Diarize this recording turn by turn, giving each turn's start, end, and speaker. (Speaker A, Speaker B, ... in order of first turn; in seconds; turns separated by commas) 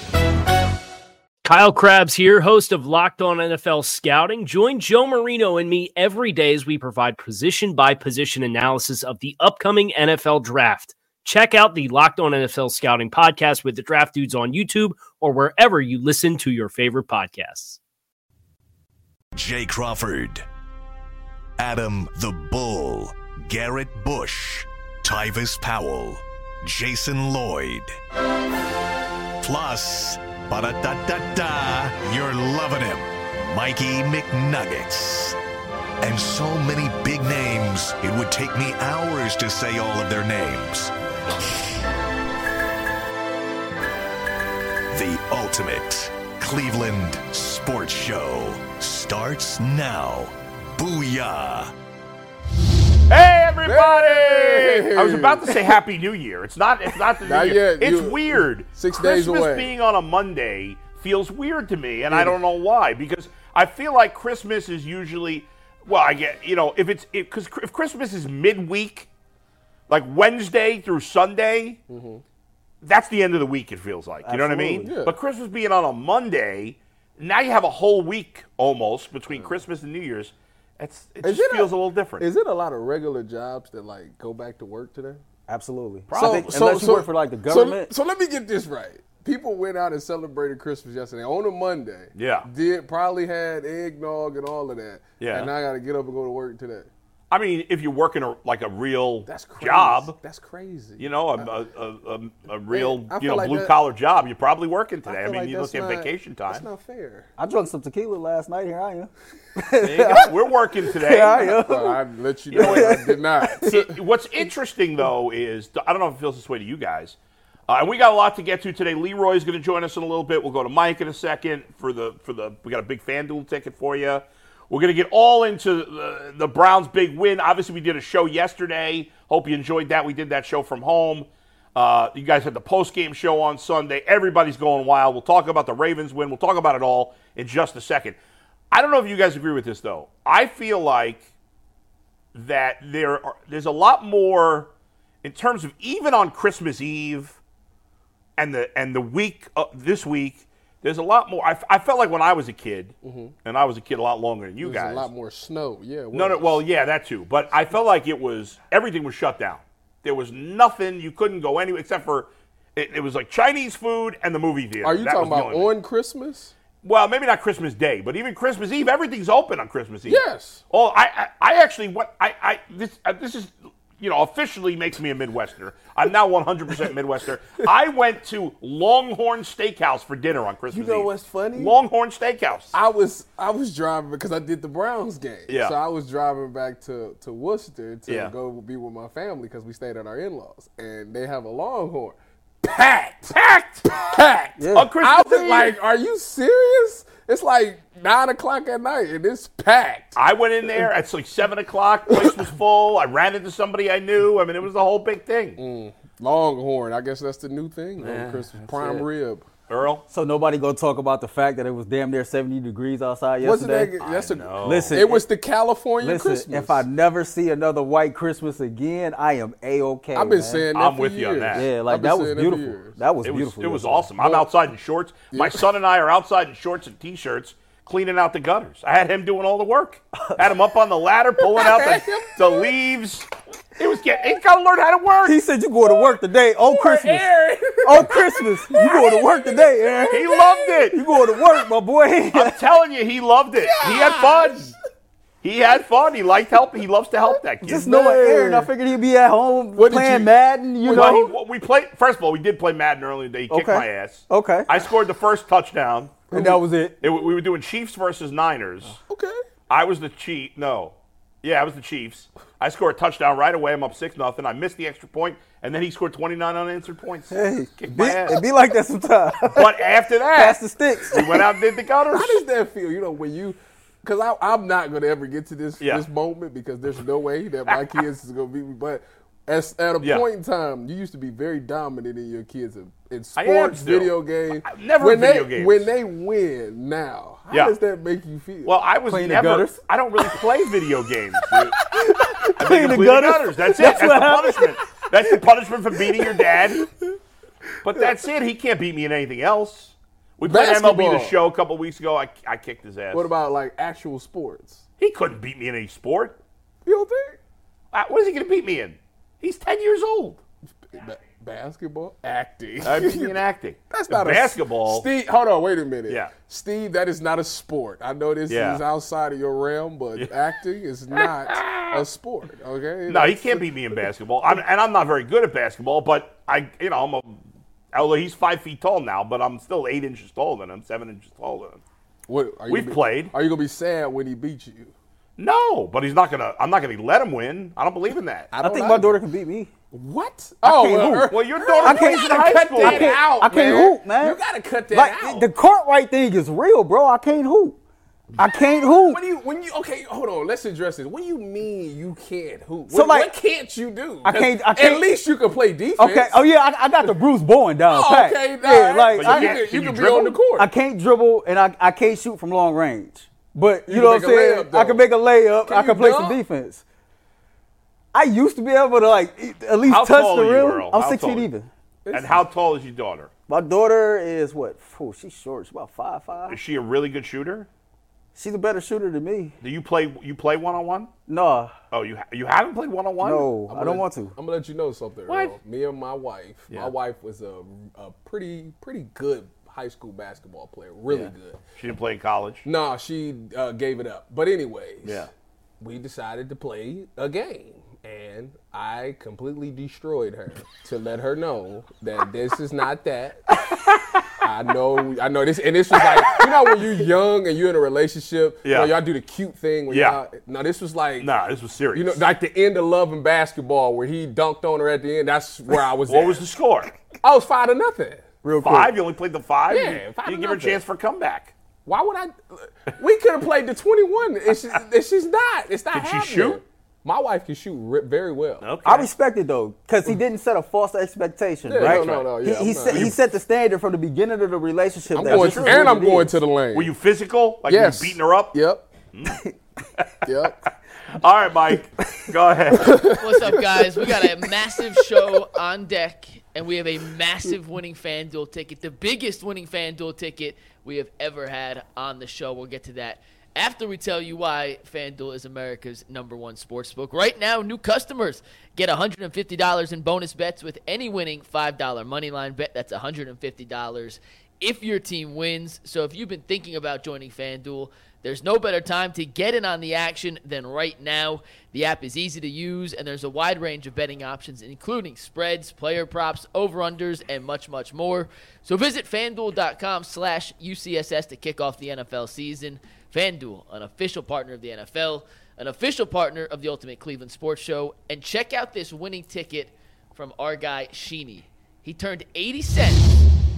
Speaker A: 1.4-17.8, Speaker B: 19.3-20.4, Speaker B: 21.6-27.9, Speaker B: 29.4-35.4, Speaker B: 36.0-40.9, Speaker B: 44.9-51.7, Speaker C: 53.1-69.1, Speaker D: 53.6-55.6, Speaker D: 57.2-59.7, Speaker D: 62.1-62.4, Speaker C: 69.9-71.8, Speaker D: 71.9-72.2, Speaker C: 72.8-82.3, Speaker E: 74.2-74.9, Speaker D: 74.8-75.1, Speaker D: 81.2-85.2, Speaker E: 85.5-87.9, Speaker C: 86.1-87.0, Speaker D: 86.1-96.9, Speaker C: 92.2-92.5, Speaker C: 95.2-95.5, Speaker C: 97.3-100.2, Speaker D: 99.3-101.5, Speaker C: 101.0-106.6, Speaker D: 102.7-103.7, Speaker D: 105.0-107.3, Speaker E: 107.4-110.3, Speaker C: 109.8-111.5, Speaker E: 110.9-112.0, Speaker D: 111.3-114.0, Speaker C: 112.5-113.0, Speaker E: 112.5-113.0, Speaker C: 113.6-117.2, Speaker C: 117.7-138.2, Speaker C: 138.7-141.2, Speaker C: 142.3-144.7, Speaker C: 145.2-147.4, Speaker C: 148.4-155.1, Speaker D: 153.0-153.3, Speaker D: 154.6-156.6, Speaker C: 156.1-165.7, Speaker D: 164.8-166.5, Speaker C: 166.8-182.7, Speaker D: 170.1-170.6, Speaker D: 180.7-181.7, Speaker D: 182.7-200.2, Speaker C: 185.5-185.7, Speaker C: 188.1-188.3, Speaker C: 193.3-194.1, Speaker E: 194.6-194.9, Speaker C: 194.7-195.7, Speaker C: 200.2-205.6, Speaker D: 202.1-202.4, Speaker D: 205.6-209.5, Speaker C: 208.0-208.5, Speaker C: 209.7-210.0, Speaker E: 210.1-213.9, Speaker D: 213.4-216.8, Speaker C: 214.0-215.1, Speaker E: 214.6-215.2, Speaker E: 216.0-220.7, Speaker D: 220.1-223.0, Speaker C: 220.7-221.7, Speaker E: 221.5-224.1, Speaker C: 223.2-235.4, Speaker D: 224.2-224.5, Speaker D: 225.3-225.7, Speaker D: 231.4-232.7, Speaker E: 235.2-237.3, Speaker D: 235.8-241.7, Speaker E: 237.8-240.2, Speaker C: 240.1-241.0, Speaker E: 240.9-242.5, Speaker C: 242.3-244.7, Speaker D: 243.6-244.7, Speaker C: 245.4-247.9, Speaker E: 247.6-251.2, Speaker D: 247.7-248.7, Speaker D: 249.8-251.3, Speaker C: 250.9-256.5, Speaker E: 253.5-254.7, Speaker E: 256.3-257.0, Speaker C: 257.0-258.9, Speaker D: 259.1-259.4, Speaker C: 259.7-268.4, Speaker E: 267.3-269.7, Speaker C: 269.5-272.4, Speaker E: 270.3-271.5, Speaker D: 272.1-288.8, Speaker C: 275.8-276.0, Speaker C: 277.7-278.0, Speaker C: 280.0-280.2, Speaker C: 283.4-284.1, Speaker C: 284.6-285.9, Speaker C: 287.5-287.8, Speaker C: 288.6-291.8, Speaker E: 289.1-289.8, Speaker D: 292.0-292.5, Speaker E: 292.4-294.6, Speaker C: 292.5-296.8, Speaker D: 296.1-296.9, Speaker C: 297.8-303.3, Speaker D: 297.9-298.2, Speaker D: 300.4-301.4, Speaker D: 303.1-304.8, Speaker C: 305.0-306.4, Speaker D: 306.8-307.4, Speaker C: 307.9-310.4, Speaker D: 310.9-313.4, Speaker C: 312.8-315.1, Speaker D: 313.9-323.7, Speaker C: 316.1-316.3, Speaker C: 318.5-318.8, Speaker C: 321.1-322.0, Speaker C: 323.1-327.4, Speaker C: 327.9-331.8, Speaker D: 332.3-334.9, Speaker C: 332.7-333.3, Speaker C: 335.4-338.5, Speaker D: 338.5-339.2, Speaker E: 338.6-339.7, Speaker D: 339.9-345.5, Speaker E: 340.6-344.4, Speaker C: 341.3-343.2, Speaker E: 344.9-347.8, Speaker E: 348.4-349.2, Speaker D: 348.8-356.4, Speaker E: 352.9-353.3, Speaker E: 354.2-355.1, Speaker E: 356.0-359.6, Speaker D: 357.9-360.7, Speaker C: 359.1-360.4, Speaker E: 360.6-366.8, Speaker D: 363.8-365.0, Speaker D: 365.6-366.4, Speaker E: 368.1-371.7, Speaker C: 369.8-371.5, Speaker D: 372.0-372.4, Speaker C: 372.1-373.3, Speaker E: 373.5-376.6, Speaker C: 376.5-377.7, Speaker E: 378.3-379.5, Speaker C: 379.6-381.1, Speaker E: 381.3-381.7, Speaker C: 381.9-383.5, Speaker E: 383.2-384.3, Speaker D: 383.7-391.6, Speaker C: 385.3-385.5, Speaker C: 391.1-392.6, Speaker D: 392.6-395.3, Speaker D: 395.8-403.8, Speaker D: 404.4-411.3, Speaker C: 408.6-408.9, Speaker C: 409.9-410.2, Speaker C: 411.2-412.2, Speaker D: 411.9-416.4, Speaker C: 416.1-416.9, Speaker D: 417.2-418.4, Speaker E: 418.4-418.9, Speaker C: 418.6-421.5, Speaker D: 419.7-420.8, Speaker D: 421.9-428.6, Speaker C: 425.9-426.6, Speaker C: 428.6-429.1, Speaker E: 428.8-436.3, Speaker D: 431.6-433.1, Speaker C: 431.8-432.3, Speaker C: 432.9-433.1, Speaker D: 435.1-436.9, Speaker C: 435.3-435.9, Speaker C: 436.7-438.6, Speaker D: 437.6-438.8, Speaker C: 439.1-439.4, Speaker C: 440.0-443.2, Speaker D: 440.2-440.6, Speaker D: 442.8-443.6, Speaker F: 443.2-493.2